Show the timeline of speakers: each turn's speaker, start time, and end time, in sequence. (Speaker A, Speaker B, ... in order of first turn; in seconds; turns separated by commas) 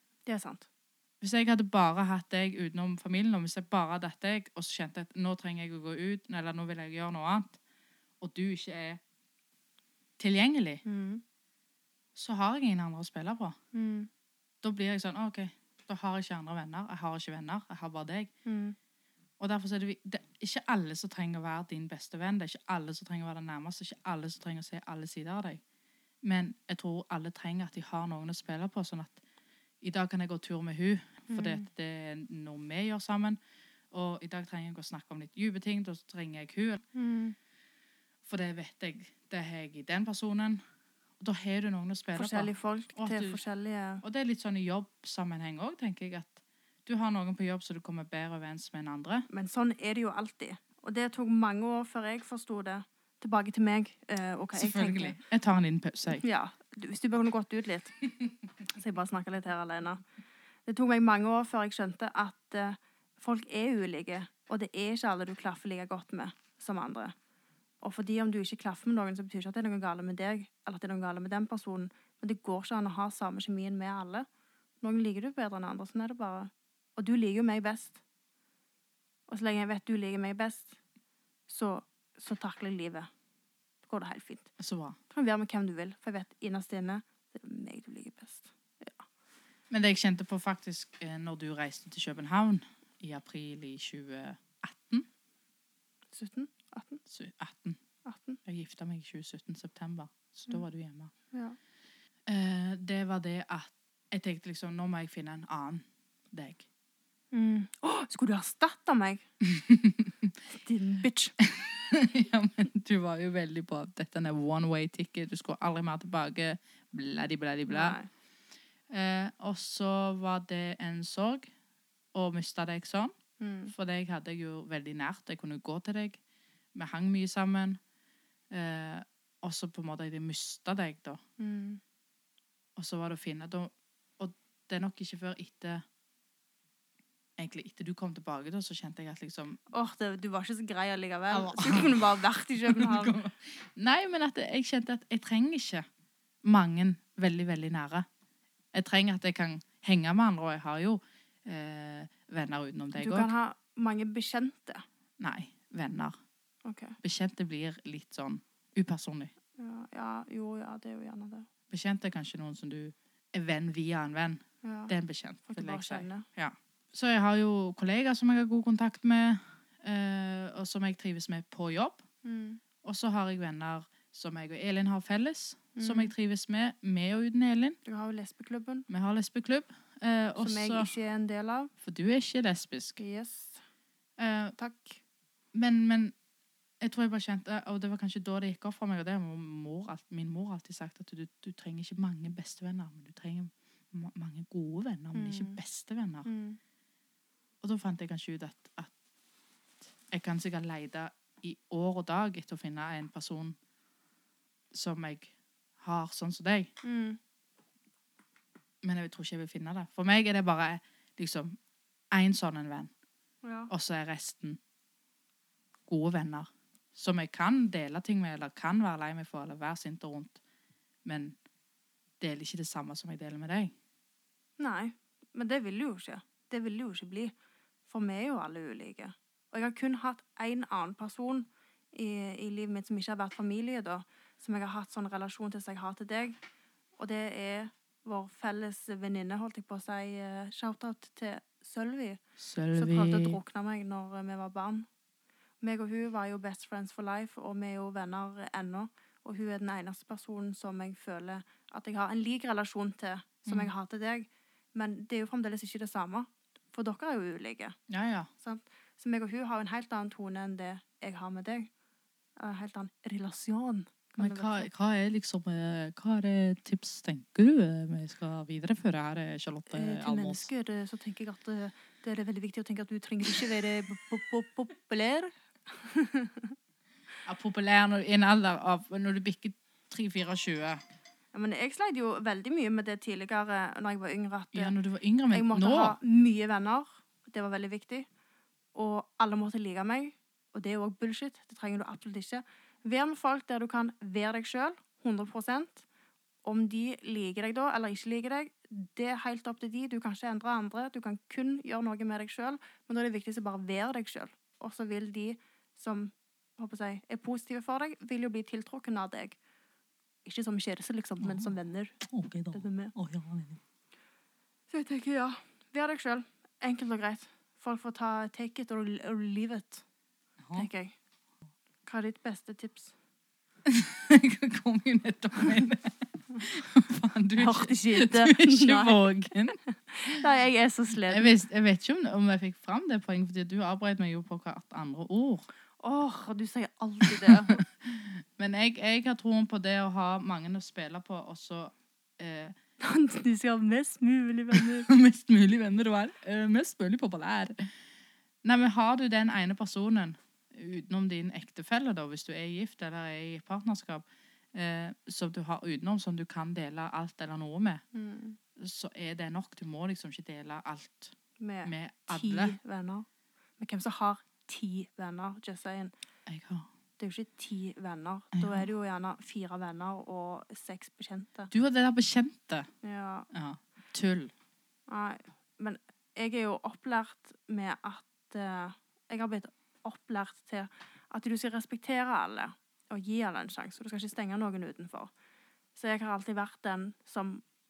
Speaker A: 0.3-0.7, Speaker B: 1.2-7.6, Speaker B: 8.2-9.0, Speaker B: 10.2-10.8, Speaker A: 10.8-11.2, Speaker B: 12.2-13.6, Speaker A: 13.7-14.1, Speaker B: 14.6-18.3, Speaker A: 18.4-18.8, Speaker B: 19.4-25.6, Speaker B: 26.2-29.2, Speaker B: 29.8-33.4, Speaker A: 31.3-31.7, Speaker B: 33.9-36.8, Speaker A: 37.0-37.4, Speaker B: 38.2-40.6, Speaker B: 41.2-43.4, Speaker A: 42.1-44.0, Speaker B: 44.0-49.3, Speaker A: 49.3-55.2, Speaker B: 54.5-56.2, Speaker A: 56.1-58.0, Speaker A: 58.7-60.0, Speaker A: 60.7-67.1, Speaker A: 67.8-74.3, Speaker A: 74.8-78.0, Speaker A: 79.3-80.8, Speaker A: 81.5-83.1, Speaker A: 83.8-84.5, Speaker B: 84.6-85.0, Speaker A: 85.1-89.1, Speaker B: 89.7-95.1, Speaker A: 96.1-97.0, Speaker B: 97.1-97.8, Speaker A: 98.0-98.4, Speaker B: 98.5-101.1, Speaker A: 101.3-101.6, Speaker B: 102.3-106.7, Speaker A: 107.3-109.2, Speaker B: 109.4-110.4, Speaker A: 110.5-111.4, Speaker B: 111.4-118.0, Speaker A: 117.7-118.1, Speaker B: 118.9-121.5, Speaker B: 122.1-123.2, Speaker A: 123.4-123.7, Speaker B: 123.7-126.2, Speaker B: 126.8-127.8, Speaker B: 128.5-131.2, Speaker A: 131.4-131.8, Speaker B: 132.8-135.8, Speaker B: 137.4-139.6, Speaker A: 139.7-143.2, Speaker B: 141.3-145.8, Speaker B: 146.4-148.1, Speaker B: 148.7-153.3, Speaker A: 153.0-154.8, Speaker B: 155.2-156.1, Speaker A: 156.6-157.0, Speaker B: 157.0-159.3, Speaker A: 159.6-161.5, Speaker B: 161.7-172.0, Speaker A: 164.6-164.9, Speaker A: 165.5-166.3, Speaker A: 172.2-172.6, Speaker B: 172.8-177.8, Speaker A: 175.8-176.1, Speaker A: 177.8-178.9, Speaker B: 178.9-180.9, Speaker A: 180.4-181.7, Speaker B: 181.8-183.0, Speaker A: 183.0-183.6, Speaker B: 184.2-184.6, Speaker A: 184.6-185.0, Speaker B: 185.5-186.1, Speaker B: 186.8-196.3, Speaker A: 195.1-195.6, Speaker A: 196.2-196.6, Speaker B: 197.6-198.9, Speaker B: 200.1-203.6, Speaker B: 204.7-206.7, Speaker A: 206.8-207.2, Speaker B: 208.8-211.6, Speaker B: 212.1-212.9, Speaker A: 213.4-213.7, Speaker B: 213.7-214.6, Speaker B: 215.9-220.4, Speaker B: 221.1-221.4, Speaker B: 222.2-223.7, Speaker A: 224.6-227.3, Speaker A: 227.9-236.4, Speaker A: 237.0-242.2, Speaker B: 242.4-243.4, Speaker A: 242.8-244.9, Speaker A: 245.6-257.8, Speaker B: 253.5-253.7, Speaker B: 257.9-258.3, Speaker A: 258.4-261.7, Speaker A: 262.4-264.7, Speaker B: 264.2-270.5, Speaker A: 269.7-276.6, Speaker B: 277.2-280.8, Speaker A: 281.3-284.7, Speaker B: 284.5-286.0, Speaker A: 285.3-288.1, Speaker A: 288.8-295.9, Speaker A: 296.4-309.4, Speaker A: 310.2-312.0, Speaker B: 311.2-313.6, Speaker A: 312.5-312.9, Speaker A: 314.7-319.8, Speaker B: 320.4-320.7, Speaker A: 320.5-320.9, Speaker A: 321.9-322.9, Speaker B: 323.6-330.2, Speaker A: 327.4-331.4, Speaker B: 331.1-335.5, Speaker A: 335.8-337.6, Speaker B: 337.1-342.6, Speaker A: 342.8-344.9, Speaker B: 344.5-347.7, Speaker B: 348.4-357.8, Speaker A: 357.9-358.4, Speaker B: 358.6-362.6, Speaker A: 361.4-363.1, Speaker A: 363.6-365.9, Speaker B: 366.3-366.7, Speaker A: 367.0-371.5, Speaker B: 368.3-368.7, Speaker B: 371.5-372.7, Speaker A: 372.8-373.3, Speaker B: 373.3-374.3, Speaker A: 374.9-385.1, Speaker A: 385.8-387.4